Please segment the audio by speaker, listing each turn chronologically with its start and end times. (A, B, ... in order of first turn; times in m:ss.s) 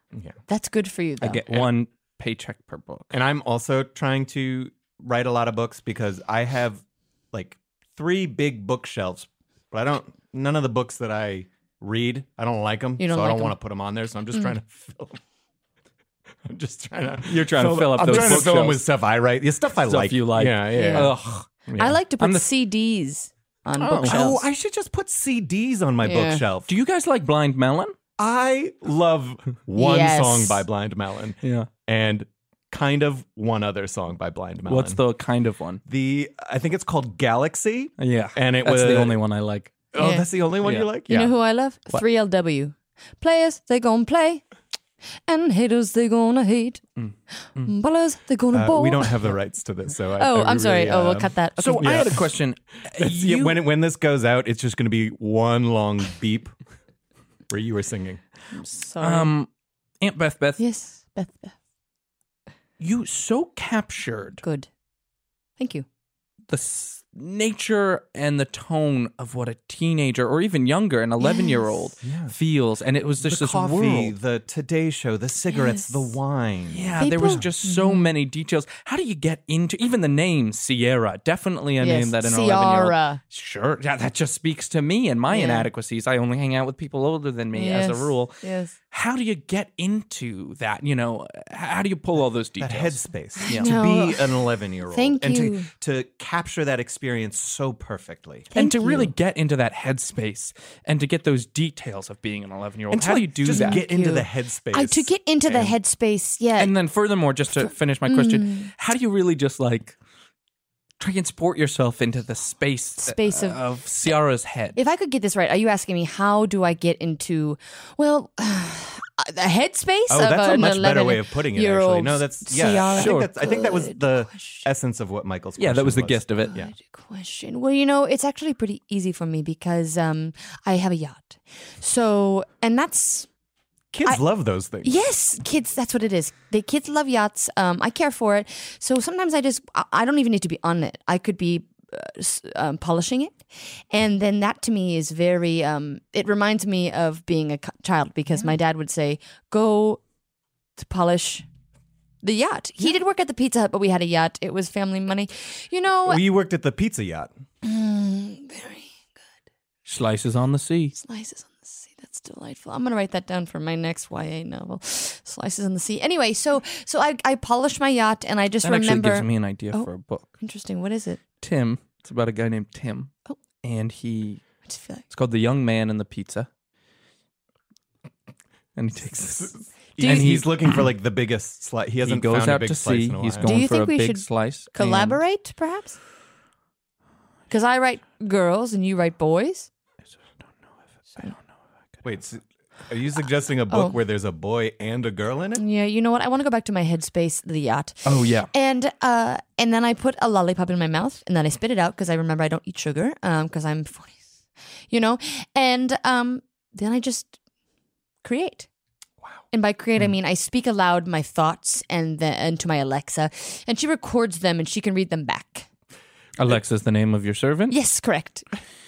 0:00.5-0:01.6 A
0:01.2-0:03.1 B
0:03.1-0:15.2 C
0:13.0-0:13.6 A
0:16.4-0:21.1 C
0:17.2-0:18.8 B
0:19.8-0:21.5 B
0:20.7-0:21.1 A
0:21.7-0:22.0 C
0:21.8-0:24.4 A
0:22.2-0:22.4 B
0:23.7-0:24.2 B
0:24.1-0:26.7 C
0:26.0-0:26.4 A
0:26.7-0:27.9 B
0:28.2-0:35.0 C
0:29.8-0:30.6 A
0:31.4-0:31.7 B
0:34.6-0:35.8 B
0:35.8-0:39.2 C
0:38.0-0:39.8 B
0:39.9-0:41.3 C
0:40.0-0:40.2 A
0:40.6-0:40.9 B
0:41.1-0:44.4 A
0:45.3-0:46.8 A
0:47.0-0:47.7 B
0:47.6-0:49.2 A
0:48.5-0:52.4 C
0:50.2-0:52.1 A
0:51.6-0:53.6 B
0:52.9-0:56.5 C
0:57.5-0:58.2 C
0:58.5-0:59.3 A
0:59.0-0:59.5 B
1:00.0-1:00.6 B
1:00.6-1:01.5 A
1:02.8-1:04.4 B
1:04.4-1:04.7 A
1:05.6-1:05.8 A
1:06.5-1:14.1 B
1:11.2-1:11.9 A
1:12.0-1:12.3 C
1:13.2-1:16.9 C
1:15.5-1:16.1 A
1:16.7-1:28.4 B
1:17.0-1:18.1 A
1:21.8-1:23.2 A
1:25.3-1:25.7 A
1:27.5-1:28.7 A
1:28.9-1:33.7 B
1:32.6-1:38.5 C
1:33.4-1:34.2 A
1:34.9-1:35.7 A
1:38.5-1:39.1 A
1:38.5-1:43.8 B
1:42.9-1:45.7 C
1:43.5-1:46.7 A
1:46.6-1:50.0 B
1:47.6-1:48.7 A
1:51.0-1:54.8 B
1:53.0-1:53.6 A
1:54.7-2:04.6 A
2:00.1-2:06.7 C
2:02.8-2:03.3 B
2:05.6-2:06.5 B
2:06.4-2:13.3 A
2:13.9-2:14.9 C
2:14.8-2:30.0 A
2:30.8-2:31.4 A
2:32.2-2:36.2 A
2:36.0-2:37.3 C
2:37.6-2:38.9 A
2:39.8-2:40.9 B
2:41.0-2:49.9 A
2:48.6-2:50.3 B
2:50.4-2:51.2 A
2:51.4-2:54.4 B
2:54.6-2:55.0 A
2:55.1-2:56.5 B
2:58.8-2:59.5 B
2:59.3-3:03.5 C
3:00.0-3:00.3 A
3:00.0-3:00.9 B
3:02.0-3:05.2 B
3:03.4-3:06.0 A
3:07.5-3:09.7 A
3:11.0-3:11.5 B
3:12.0-3:15.6 C
3:13.7-3:14.0 A
3:15.6-3:24.2 A
3:18.0-3:18.5 B
3:24.9-3:27.3 A
3:28.2-3:28.7 A
3:29.5-3:35.7 A
3:36.4-3:37.7 B
3:37.7-3:38.4 A